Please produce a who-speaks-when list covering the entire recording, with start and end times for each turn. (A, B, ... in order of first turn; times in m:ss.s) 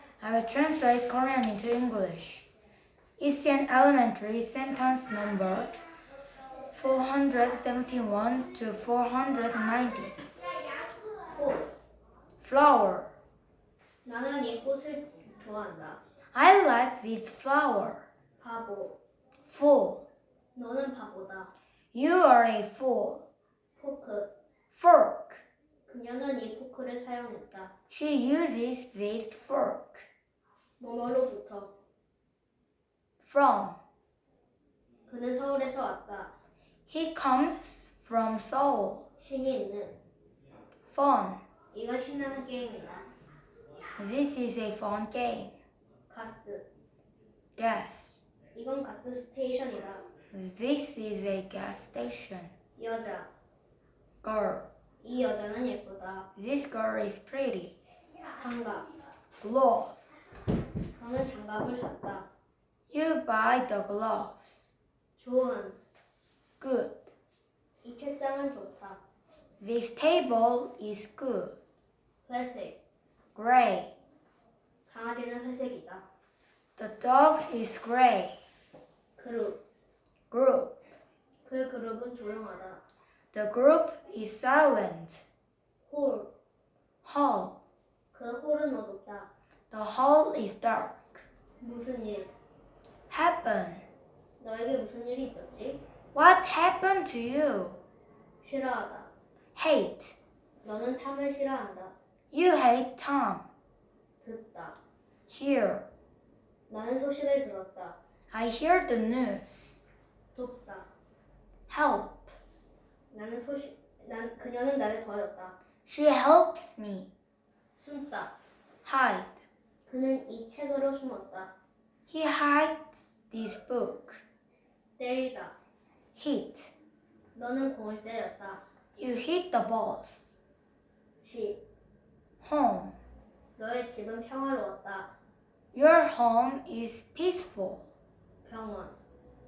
0:00.2-0:02.5 A
0:03.2-0:05.7 A
0:06.7-0:10.2 A
0:11.4-0:11.7 B
0:12.4-0:13.1 A
0:14.0-0:16.0 B
0:16.3-0:18.0 A
0:18.4-0:19.0 B
0:19.4-0:20.0 A
0:20.6-0:21.5 B
0:21.9-0:23.2 A
0:23.8-0:24.3 B
0:24.7-0:25.4 A
0:25.9-0:27.7 B
0:27.9-0:30.1 A
0:30.8-0:31.7 B
0:33.2-0:33.8 A
0:35.1-0:36.3 B
0:36.9-0:39.0 A
0:39.2-0:40.0 B
0:40.9-0:41.4 A
0:41.7-0:43.0 B
0:44.0-0:45.5 A
0:46.1-0:46.6 B
0:47.6-0:48.2 A
0:48.6-0:50.0 B
0:50.3-0:52.5 A
0:52.8-0:53.3 B
0:54.2-0:54.7 A
0:55.0-0:56.3 B
0:56.4-0:57.7 A
0:58.3-0:58.9 B
0:59.4-1:00.0 A
1:01.0-1:02.3 B
1:02.9-1:04.7 A
1:05.2-1:05.8 B
1:06.6-1:07.0 A
1:07.8-1:09.0 B
1:09.6-1:11.6 A
1:12.3-1:12.8 B
1:13.4-1:13.9 A
1:14.9-1:16.0 B
1:16.8-1:18.4 A
1:19.2-1:19.6 B
1:20.3-1:20.7 A
1:21.4-1:22.8 B
1:23.3-1:25.2 A
1:25.9-1:26.3 B
1:27.0-1:27.6 A
1:28.1-1:29.3 B
1:29.7-1:31.2 A
1:31.6-1:32.3 B
1:33.1-1:33.8 A
1:34.4-1:35.8 B
1:36.1-1:37.8 A
1:38.4-1:39.1 B
1:39.6-1:40.2 A
1:40.6-1:41.9 B
1:42.3-1:43.5 A
1:44.2-1:44.8 B
1:45.3-1:45.8 A
1:46.7-1:48.0 B
1:48.3-1:49.8 A
1:50.3-1:50.9 B
1:51.7-1:52.2 A
1:53.1-1:55.6 B
1:55.8-1:57.1 A
1:57.8-1:58.3 B
1:58.8-1:59.4 A
1:59.9-2:01.5 B
2:02.1-2:04.2 A
2:05.0-2:05.6 B
2:06.2-2:06.7 A
2:07.4-2:08.6 B
2:09.0-2:10.3 A
2:11.2-2:11.6 B
2:12.4-2:13.0 A
2:13.6-2:15.1 B
2:15.7-2:17.8 A
2:18.4-2:19.0 B